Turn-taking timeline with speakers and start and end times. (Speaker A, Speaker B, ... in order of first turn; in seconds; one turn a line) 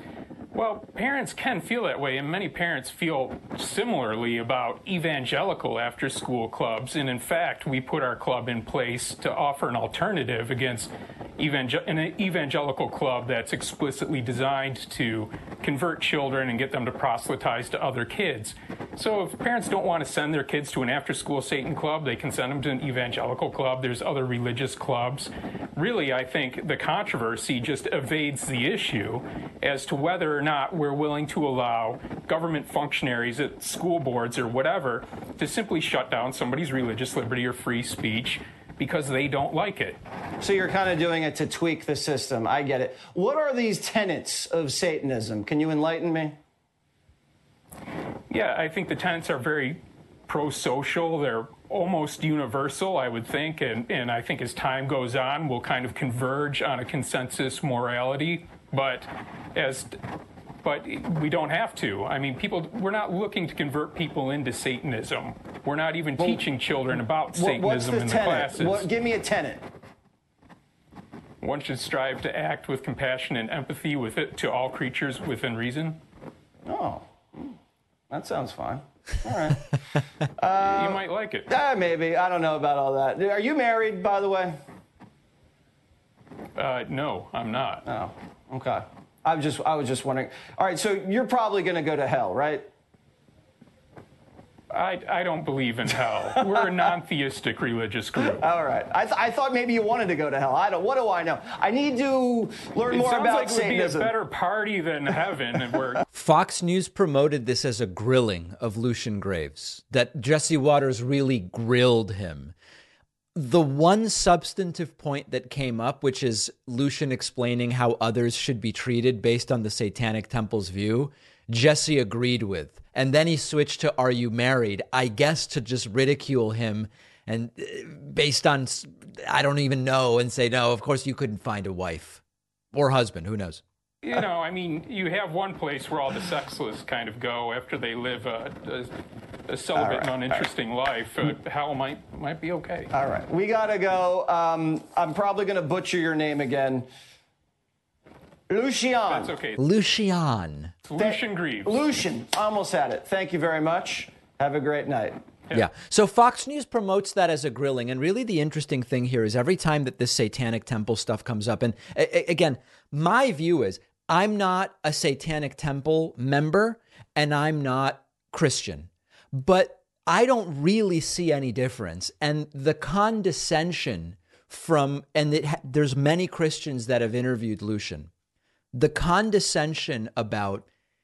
Speaker A: 0.5-40.0
Speaker B: 40.4-46.4
Speaker A: 48.3-59.9
Speaker A: 60.6-68.9
Speaker B: 66.9-69.6
Speaker A: 71.4-76.0
Speaker B: 76.7-77.5
Speaker B: 78.1-79.6
Speaker B: 80.4-84.6
Speaker A: 80.6-81.5
Speaker A: 86.5-87.8
Speaker B: 87.8-92.7
Speaker A: 94.7-98.4
Speaker B: 96.3-96.9
Speaker B: 98.2-104.1
Speaker A: 102.9-106.0
Speaker C: 106.1-112.5
Speaker C: 113.3-132.2
Speaker C: 132.7-133.6
Speaker A: 134.0-138.9
Speaker A: 139.5-142.9
Speaker B: 139.7-140.5
Speaker B: 142.9-146.8
Speaker B: 148.5-149.3
Speaker A: 149.1-149.6
Speaker C: 149.6-150.7
Speaker A: 150.8-151.8
Speaker B: 151.0-155.2
Speaker C: 155.5-178.1
Speaker C: 178.7-180.7